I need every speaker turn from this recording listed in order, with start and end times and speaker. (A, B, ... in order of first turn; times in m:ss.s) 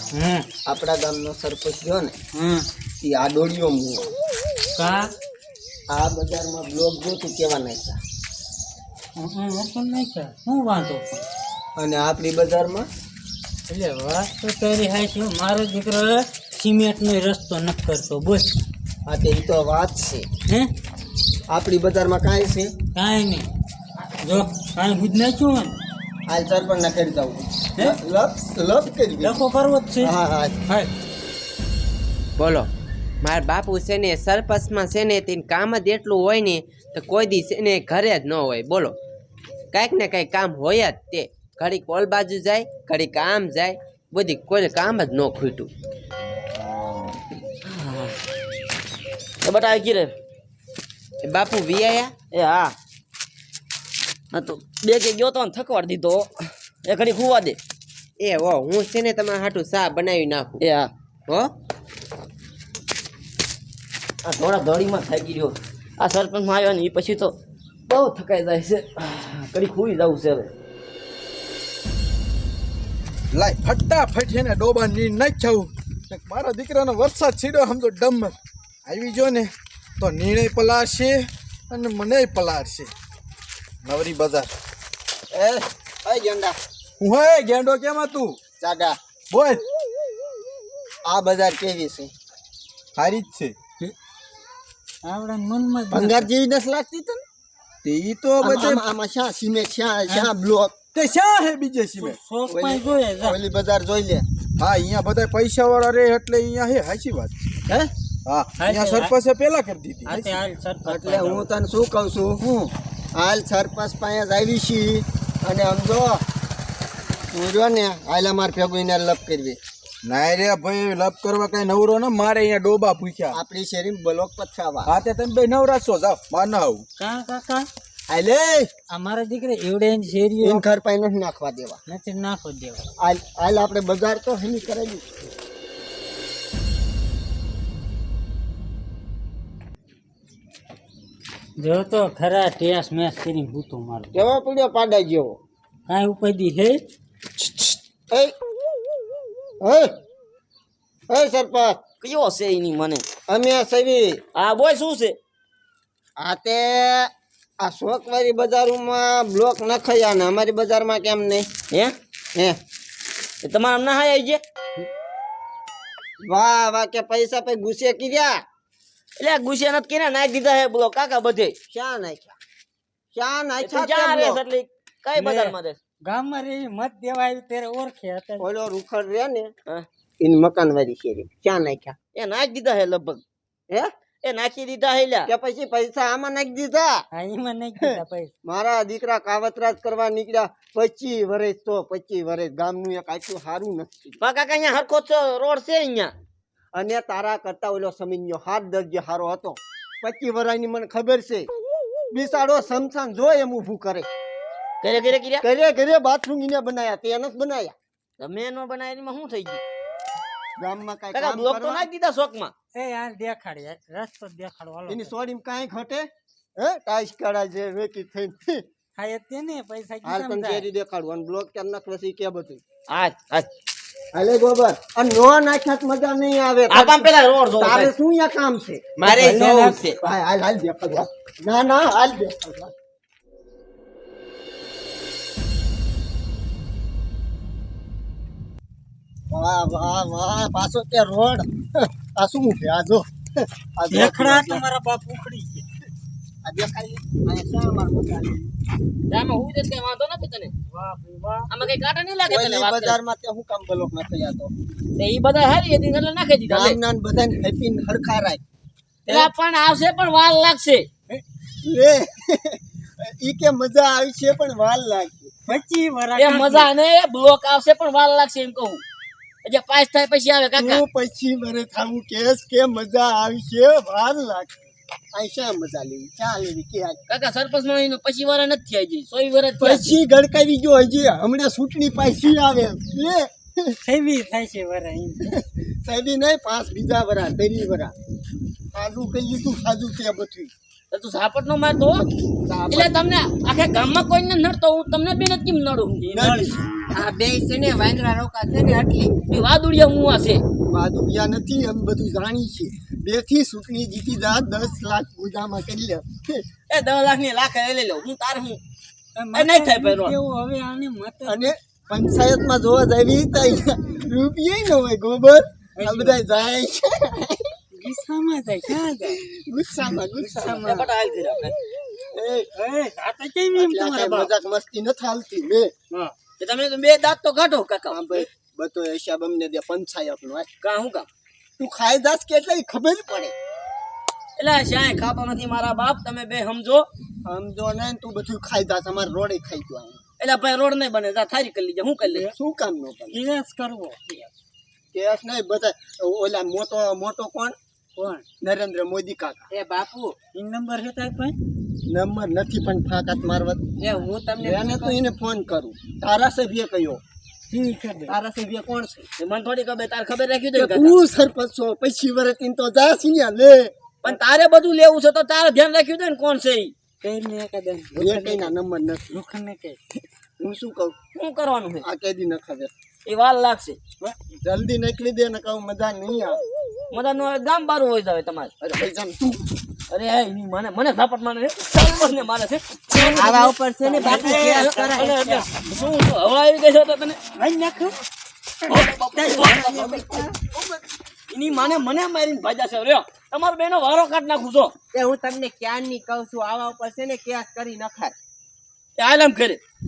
0:00.1-0:00.5 A
0:00.7-0:02.2 B
0:02.3-0:02.6 A
0:03.0-0:04.1 B
0:04.8-0:05.1 A
0:05.9-0:08.0 B
0:09.2-0:11.2 A
0:11.8-0:12.9 B
0:13.7-0:18.5 A
0:19.1-0:20.3 B
0:21.5-0:22.7 B
0:23.0-0:23.5 A
0:24.2-0:25.7 A
0:26.3-0:29.4 B
0:29.2-0:30.1 A
0:30.0-0:30.6 B
0:32.4-0:32.7 C
0:33.2-0:39.0 C
0:39.7-0:45.7 C
0:47.7-0:48.2 D
0:49.4-0:50.1 D
0:51.2-0:52.1 C
0:52.3-0:52.8 D
0:54.3-0:56.3 D
0:56.8-0:57.6 D
0:58.2-1:00.6 C
1:00.6-1:00.9 D
1:01.3-1:01.5 C
1:04.2-1:07.4 D
1:07.9-1:10.5 D
1:13.3-1:22.9 E
1:23.8-1:24.5 E
1:25.3-1:26.6 B
1:27.0-1:28.4 E
1:28.6-1:29.0 B
1:29.3-1:29.6 E
1:31.1-1:32.1 B
1:33.0-1:33.6 E
1:35.0-1:36.3 A
1:35.9-1:37.2 B
1:37.8-1:38.8 E
1:38.4-1:40.8 B
1:40.9-1:42.2 E
1:42.0-1:43.4 A
1:42.5-1:44.2 B
1:44.6-1:47.3 E
1:48.3-1:50.3 E
1:48.6-1:49.1 A
1:50.1-1:51.5 A
1:50.8-1:56.2 B
1:57.3-1:59.6 B
2:00.0-2:03.4 E
2:03.3-2:04.9 B
2:04.9-2:06.8 E
2:07.0-2:07.7 A
2:08.1-2:08.7 B
2:08.9-2:10.6 A
2:10.4-2:11.8 B
2:11.9-2:12.8 A
2:13.0-2:15.1 B
2:21.6-2:24.1 A
2:24.1-2:25.4 B
2:25.9-2:26.8 A
2:27.4-2:27.8 A
2:29.6-2:29.9 B
2:31.1-2:31.8 B
2:32.0-2:33.0 D
2:33.3-2:34.2 B
2:34.4-2:35.2 D
2:36.2-2:41.5 B
2:41.7-2:42.0 D
2:43.4-2:44.4 D
2:46.2-2:48.4 B
2:49.2-2:51.6 D
2:51.7-2:52.4 B
2:53.1-2:54.4 B
2:53.6-2:55.8 D
2:55.2-2:58.5 A
2:58.4-2:59.5 B
3:00.2-3:02.0 B
3:02.2-3:03.2 D
3:04.2-3:05.3 D
3:05.3-3:07.0 B
3:07.1-3:08.3 A
3:07.8-3:14.2 B
3:14.2-3:16.1 D
3:16.8-3:21.5 B
3:22.1-3:24.1 B
3:24.8-3:25.4 D
3:25.4-3:27.7 B
3:28.2-3:29.6 D
3:30.6-3:31.9 B
3:31.1-3:32.5 D
3:32.7-3:35.1 A
3:34.9-3:38.6 B
3:39.0-3:40.7 A
3:40.0-3:42.6 B
3:42.9-3:43.5 D
3:44.1-3:48.9 B
3:46.7-3:47.9 D
3:49.0-3:50.0 C
3:49.1-3:49.8 A
3:50.0-3:52.7 B
3:59.3-4:04.6 B
4:03.9-4:05.7 A
4:06.4-4:08.5 B
4:09.1-4:10.5 D
4:10.7-4:11.5 A
4:11.5-4:13.0 D
4:12.3-4:14.5 B
4:15.0-4:16.8 D
4:16.5-4:18.4 B
4:19.1-4:20.9 D
4:21.6-4:25.5 B
4:25.5-4:26.7 A
4:26.2-4:28.8 D
4:29.4-4:30.8 D
4:30.6-4:34.5 B
4:35.1-4:37.0 B
4:37.1-4:40.0 D
4:39.6-4:43.8 B
4:43.8-4:45.3 A
4:45.3-4:47.9 B
4:48.7-4:50.5 B
4:50.9-4:52.0 D
4:52.0-4:53.0 B
4:52.7-4:56.1 D
4:56.0-4:56.6 A
4:56.1-4:56.6 B
4:56.9-4:59.2 C
4:59.3-5:00.4 D
5:00.7-5:06.4 B
5:06.7-5:08.6 D
5:09.2-5:11.5 A
5:09.3-5:10.2 D
5:11.3-5:17.5 B
5:15.8-5:16.2 A
5:17.7-5:19.2 A
5:19.0-5:20.7 B
5:20.2-5:20.9 A
5:20.4-5:21.6 D
5:22.1-5:22.5 B
5:22.6-5:24.3 A
5:23.6-5:25.7 B
5:26.4-5:28.3 D
5:27.9-5:30.5 B
5:30.6-5:31.1 D
5:31.6-5:33.3 B
5:34.4-5:36.9 D
5:37.2-5:40.0 B
5:40.2-5:42.3 D
5:42.3-5:43.2 B
5:43.1-5:44.3 A
5:44.9-5:47.6 B
5:48.0-5:48.2 A
5:48.4-5:49.5 B
5:49.5-5:50.2 C
5:50.3-5:51.4 A
5:51.9-5:53.6 B
5:53.8-5:55.0 C
5:54.4-5:57.0 B
5:57.5-5:58.2 A
5:58.1-5:59.1 B
5:59.2-6:01.0 D
6:00.6-6:03.7 B
6:04.0-6:06.7 D
6:07.0-6:08.5 A
6:08.0-6:09.2 B
6:09.1-6:09.8 A
6:10.4-6:11.0 B
6:11.1-6:11.9 D
6:11.8-6:12.7 B
6:13.1-6:13.8 D
6:14.4-6:16.4 B
6:16.9-6:18.5 D
6:18.6-6:19.5 B
6:19.9-6:23.4 D
6:22.9-6:25.5 A
6:23.1-6:25.1 C
6:24.0-6:27.2 D
6:27.4-6:28.0 A
6:28.7-6:30.0 D
6:28.7-6:30.2 A
6:29.5-6:30.3 C
6:31.3-6:34.7 D
6:34.9-6:38.1 C
6:39.0-6:39.6 D